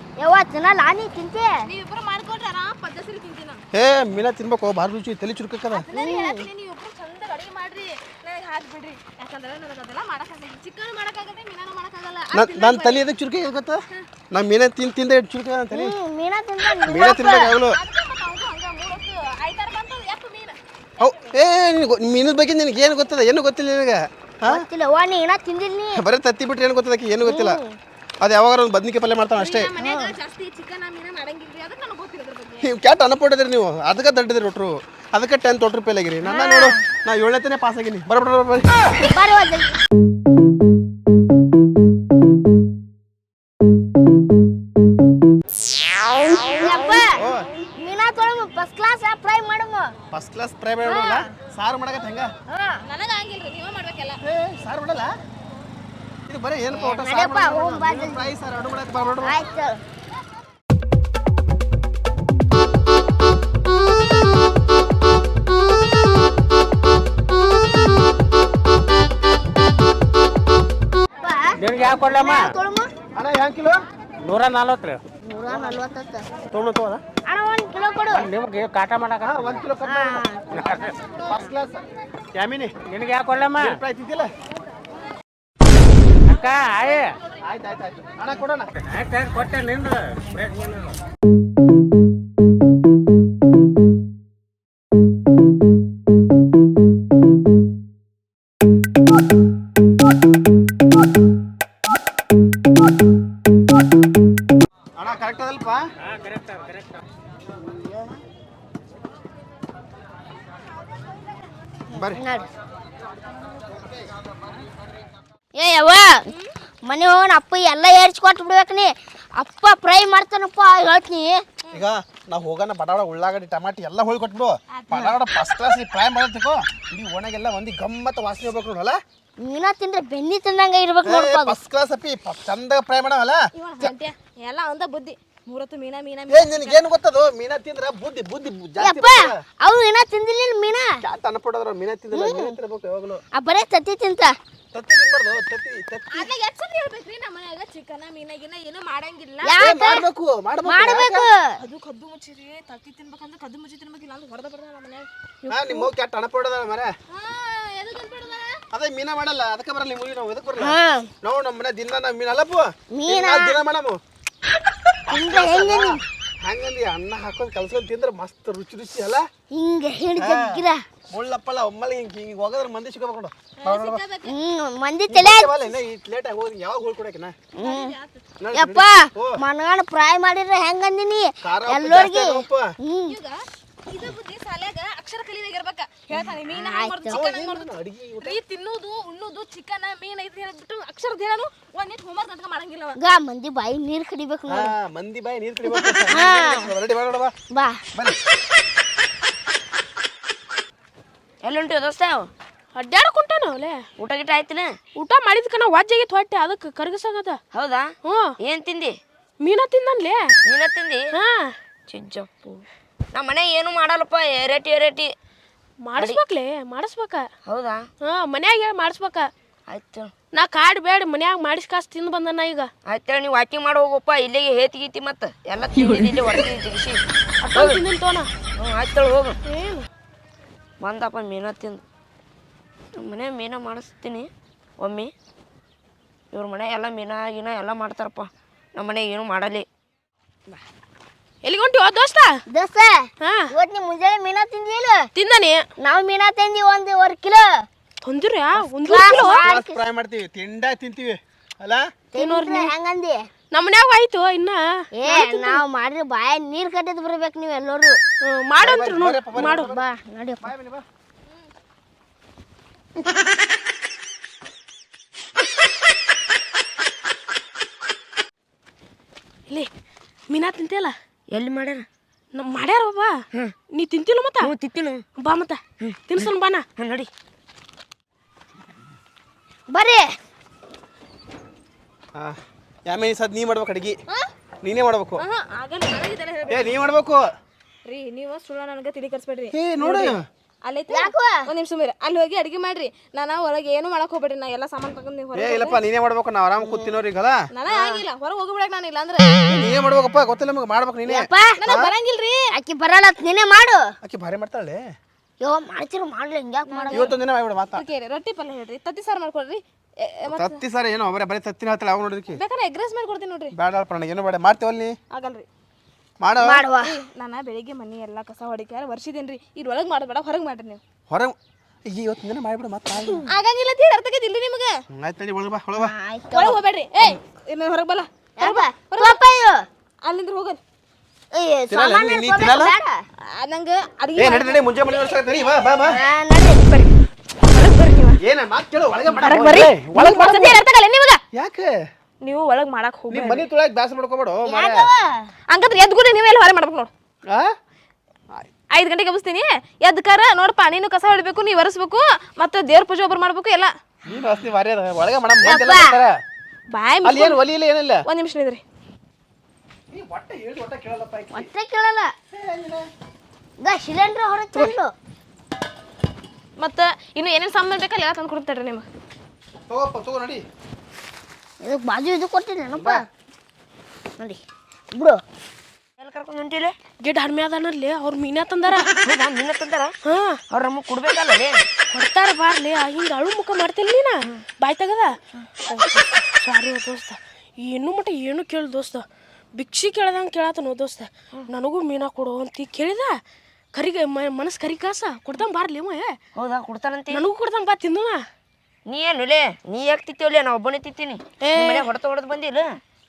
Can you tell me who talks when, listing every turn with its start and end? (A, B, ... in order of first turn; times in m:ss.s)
0:00.2-0:01.5 A
0:01.6-0:03.6 B
0:03.7-0:05.9 C
0:05.7-0:13.0 B
0:05.9-0:06.5 A
0:12.3-0:16.0 C
0:15.7-0:17.6 A
0:16.9-0:17.8 C
0:17.7-0:21.3 B
0:21.0-0:24.6 C
0:24.4-0:26.0 A
0:25.9-0:27.6 C
0:27.2-0:27.8 A
0:28.2-0:29.7 C
0:29.3-0:32.7 B
0:29.8-0:30.1 A
0:32.6-0:38.8 C
0:36.2-0:36.7 A
0:36.5-0:36.7 B
0:39.0-0:39.7 A
0:46.3-0:47.2 A
0:47.1-0:47.5 C
0:47.8-0:49.9 A
0:50.1-0:52.3 C
0:50.8-0:51.3 A
0:52.5-0:52.8 A
0:52.8-0:54.2 B
0:54.2-0:55.1 C
0:56.3-0:59.3 C
0:56.7-0:58.3 A
0:59.2-0:59.8 A
1:11.2-1:11.6 A
1:11.6-1:12.5 D
1:12.1-1:12.9 A
1:13.1-1:13.8 C
1:14.2-1:15.0 D
1:15.2-1:16.3 A
1:16.5-1:17.0 C
1:17.2-1:18.3 A
1:18.1-1:19.5 D
1:19.2-1:20.2 C
1:19.8-1:20.5 A
1:20.5-1:20.9 D
1:21.2-1:22.7 C
1:22.9-1:23.8 D
1:23.6-1:24.3 C
1:26.3-1:27.1 D
1:27.4-1:28.7 C
1:28.9-1:30.9 D
1:45.0-1:45.9 C
1:46.1-1:46.9 D
1:51.9-1:52.2 C
1:51.9-1:52.5 A
1:55.5-1:56.3 A
1:56.3-1:56.5 B
1:56.8-2:01.4 A
2:01.7-2:09.0 C
2:04.7-2:05.0 B
2:09.4-2:11.6 A
2:11.0-2:13.5 C
2:13.5-2:16.8 B
2:16.3-2:19.4 C
2:18.8-2:21.0 A
2:21.0-2:23.2 C
2:22.1-2:22.6 A
2:23.3-2:24.4 A
2:24.7-2:26.3 C
2:26.1-2:29.6 B
2:29.4-2:30.1 A
2:29.6-2:31.2 C
2:30.6-2:31.6 A
2:31.6-2:35.1 B
2:35.5-2:36.9 C
2:35.5-2:35.9 A
2:37.1-2:38.6 B
2:38.7-2:44.0 C
2:40.6-2:41.1 A
2:42.9-2:43.6 A
2:45.1-2:49.2 C
2:45.1-2:46.0 A
2:49.5-2:50.8 A
2:50.2-2:54.0 C
2:53.6-2:54.3 B
2:54.2-2:55.7 A
2:55.1-2:57.4 C
2:57.6-2:57.9 A
2:57.6-2:58.2 B
2:58.4-2:59.4 C
2:58.5-3:03.2 A
3:01.4-3:02.7 C
3:03.1-3:07.7 B
3:06.3-3:07.2 A
3:07.1-3:08.4 C
3:08.2-3:13.0 B
3:13.0-3:14.7 A
3:14.5-3:17.3 C
3:15.6-3:16.7 A
3:17.5-3:17.8 A
3:21.4-3:22.3 E
3:22.7-3:23.8 F
3:24.0-3:24.7 E
3:25.0-3:27.4 F
3:27.5-3:29.0 E
3:28.0-3:28.3 F
3:29.4-3:30.3 F
3:30.4-3:31.1 E
3:31.1-3:31.5 F
3:31.9-3:32.6 E
3:33.1-3:35.1 E
3:35.8-3:37.3 F
3:37.5-3:37.8 E
3:38.0-3:39.3 F
3:39.7-3:40.1 E
3:40.3-3:42.7 F
3:42.9-3:47.0 E
3:47.4-3:48.3 F
3:47.5-3:47.8 E
3:48.6-3:49.4 E
3:49.4-3:49.9 F
3:50.8-3:51.8 E
3:53.0-3:55.1 E
3:56.3-3:59.6 E
4:01.4-4:02.3 F
4:02.5-4:05.1 A
4:03.2-4:03.5 F
4:05.2-4:05.6 F
4:05.8-4:07.6 A
4:08.0-4:09.5 F
4:08.8-4:09.8 A
4:09.0-4:11.9 C
4:12.1-4:13.3 A
4:12.2-4:12.7 F
4:13.5-4:14.6 F
4:15.0-4:18.0 A
4:15.1-4:15.4 B
4:18.3-4:19.7 F
4:18.6-4:19.8 C
4:19.5-4:20.5 A
4:20.4-4:20.8 C
4:30.3-4:30.9 F
4:31.3-4:31.8 E
4:32.3-4:33.2 F
4:33.7-4:34.5 F
4:34.4-4:35.0 E
4:35.2-4:36.6 F
4:35.8-4:37.1 E
4:39.7-4:40.1 A
4:42.1-4:44.0 C
4:44.6-4:45.2 C
4:45.2-4:46.8 B
4:46.5-4:47.3 C
4:47.9-4:55.8 B
4:49.5-4:50.2 C
4:50.9-4:51.5 A
4:55.3-4:57.5 C
4:56.6-4:57.0 A
4:57.5-4:59.3 B
4:57.7-4:58.0 A
4:59.5-5:01.9 C
5:01.0-5:01.6 A
5:01.6-5:02.5 B
5:02.5-5:03.9 A
5:04.0-5:04.8 C
5:05.4-5:07.1 A
5:06.7-5:07.1 B
5:06.9-5:07.8 C
5:07.7-5:10.6 B
5:10.4-5:12.4 C
5:12.3-5:13.5 B
5:13.5-5:15.0 C
5:15.1-5:15.5 B
5:16.2-5:16.6 C
5:16.4-5:16.9 A
5:16.8-5:20.8 B
5:21.1-5:21.4 C
5:21.9-5:23.2 C
5:23.3-5:24.8 B
5:24.9-5:25.9 C
5:25.8-5:26.6 A
5:26.3-5:29.2 B
5:28.4-5:29.6 A
5:30.0-5:30.6 B
5:31.3-5:33.0 A
5:31.7-5:32.7 C
5:33.2-5:35.5 B
5:34.2-5:36.0 C
5:35.8-5:36.6 A
5:36.7-5:36.9 B
5:37.5-5:38.2 B
5:38.2-5:40.6 C
5:39.2-5:41.2 B
5:41.3-5:41.8 C
5:42.2-5:43.5 B
5:43.1-5:44.9 C
5:44.4-5:45.3 A
5:45.5-5:46.9 B
5:47.3-5:47.5 C
5:48.7-5:53.7 B
5:54.1-5:56.2 C
5:55.4-5:56.0 A
5:56.7-5:57.4 B
5:57.0-5:58.0 C
5:58.0-5:58.6 B
5:59.9-6:01.5 C
6:01.3-6:02.1 A
6:02.3-6:02.8 C
6:03.6-6:04.9 A
6:06.6-6:08.8 B
6:09.7-6:10.4 C
6:11.6-6:13.0 A
6:12.7-6:13.0 C
6:14.9-6:15.2 A
6:16.0-6:16.8 E
6:17.0-6:18.9 F
6:18.9-6:19.9 E
6:20.1-6:20.4 F
6:20.5-6:21.6 E
6:21.9-6:25.2 F
6:25.7-6:33.2 F
6:33.7-6:36.2 F
6:36.4-6:37.2 E
6:37.1-6:38.2 F
6:38.9-6:42.8 E
6:41.4-6:41.8 F